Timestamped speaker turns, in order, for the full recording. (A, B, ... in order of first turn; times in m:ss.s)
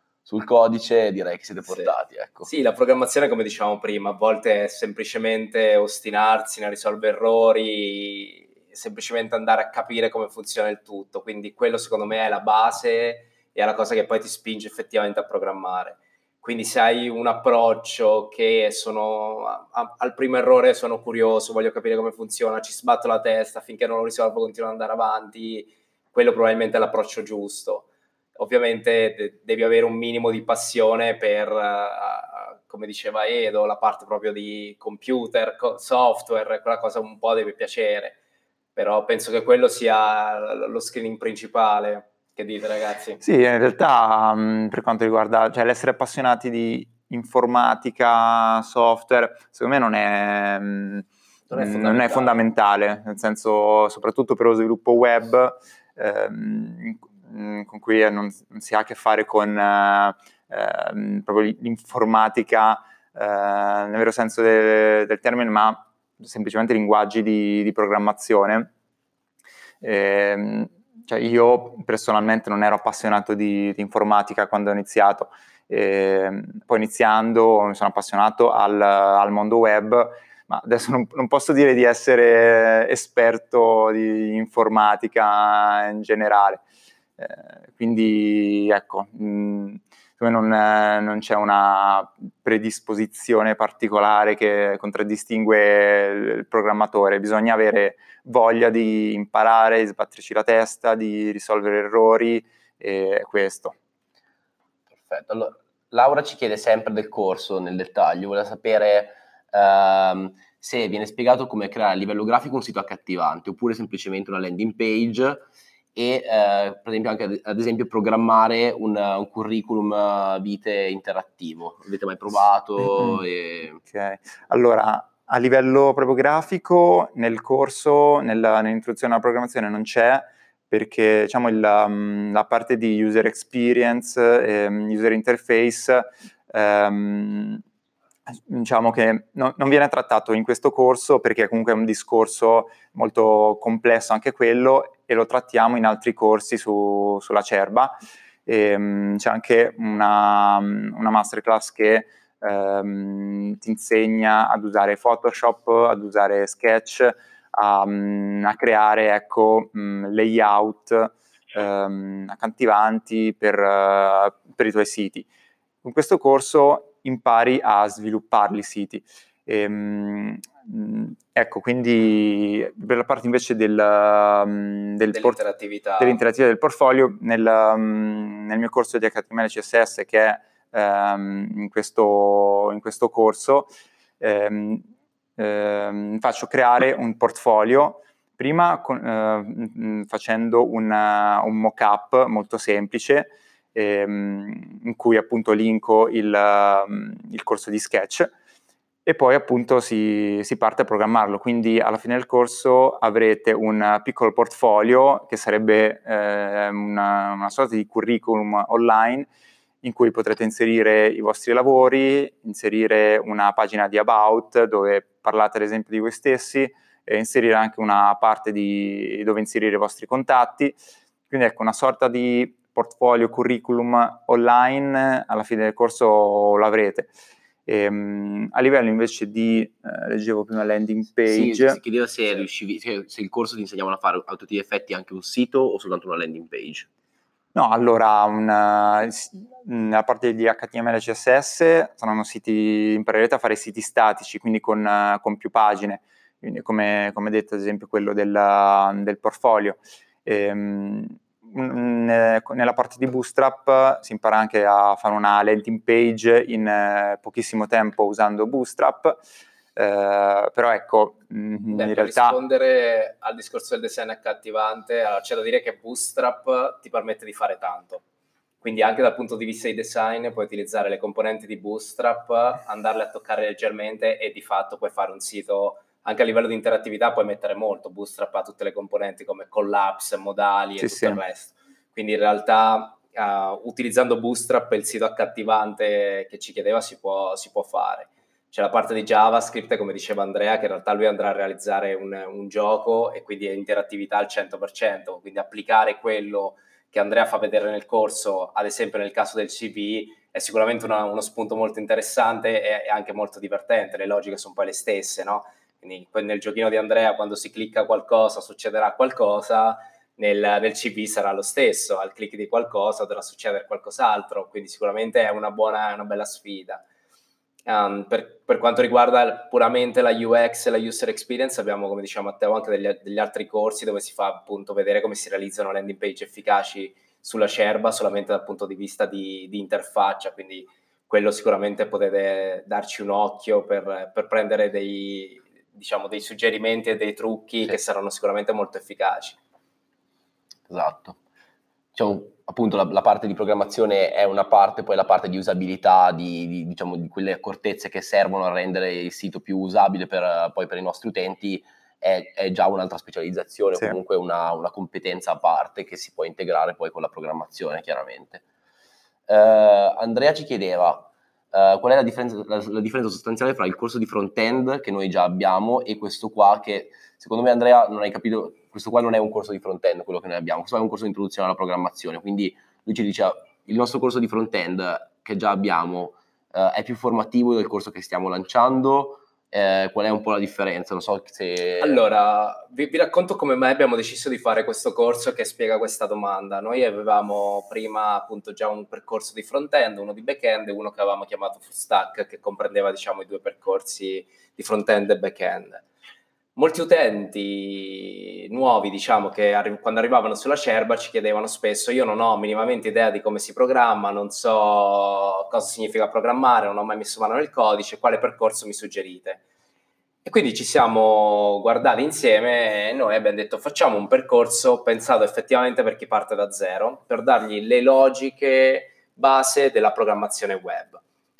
0:00.3-0:02.5 A
0:01.7-0:01.9 B
0:02.4-0:27.9 B
0:28.4-0:38.2 B
0:38.8-0:43.2 B
0:43.2-1:08.7 C
0:51.5-0:52.4 B
1:09.8-1:26.6 C
1:27.2-1:43.8 C
1:45.0-2:03.8 A
2:02.9-2:03.2 C
2:03.8-2:17.6 C
2:18.3-2:28.0 C
2:28.5-2:45.3 C
2:45.8-2:55.4 C
2:55.1-2:56.2 B
2:56.0-3:18.3 C
3:19.1-3:29.3 C
3:29.8-3:40.8 C
3:41.3-3:47.1 C
3:47.7-3:51.8 C
3:51.3-3:56.9 A
3:57.6-4:19.2 C
4:19.8-4:22.4 C
4:21.7-4:28.0 B
4:28.6-5:16.8 B
4:40.8-4:41.2 C
5:17.7-5:39.4 B
5:40.7-5:41.2 A
5:42.0-5:58.4 A
5:59.3-6:22.0 A
6:21.8-6:35.8 B
6:36.6-6:49.4 B
6:50.2-7:01.0 B